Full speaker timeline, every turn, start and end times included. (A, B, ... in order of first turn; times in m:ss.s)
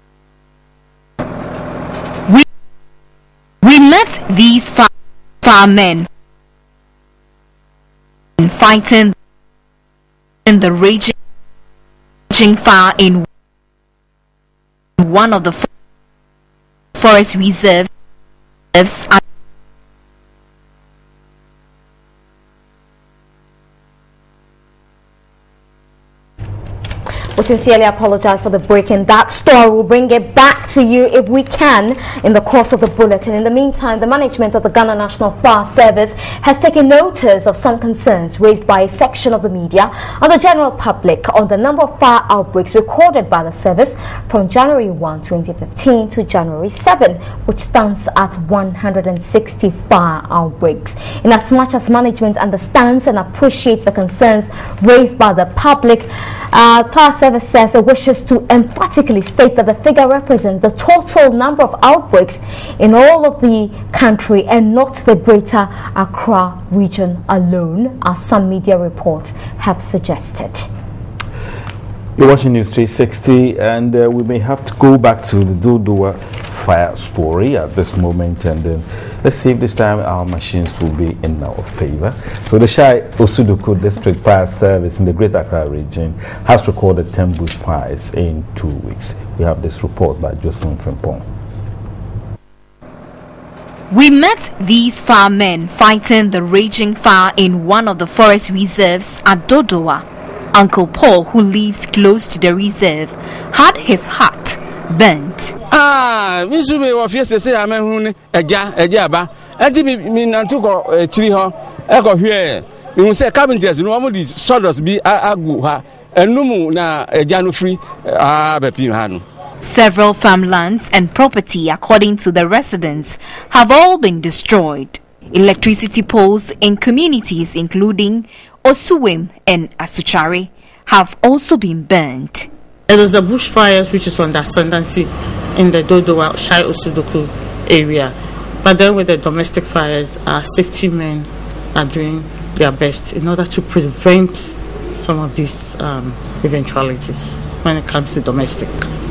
0:03.6-0:04.9 A
0:05.4-0:06.1 A
0:08.4-0:09.1 A
0:10.4-0:11.1 A
0:12.3-0:13.2 A
0:15.0-0:15.7 A
0:17.0-0:17.9 A
0:18.7-0:19.2 A
0:27.4-1:10.7 B
1:12.2-1:31.2 C
1:33.9-1:45.6 A
1:45.7-1:59.2 D
1:59.6-2:12.5 A
2:12.9-2:28.8 E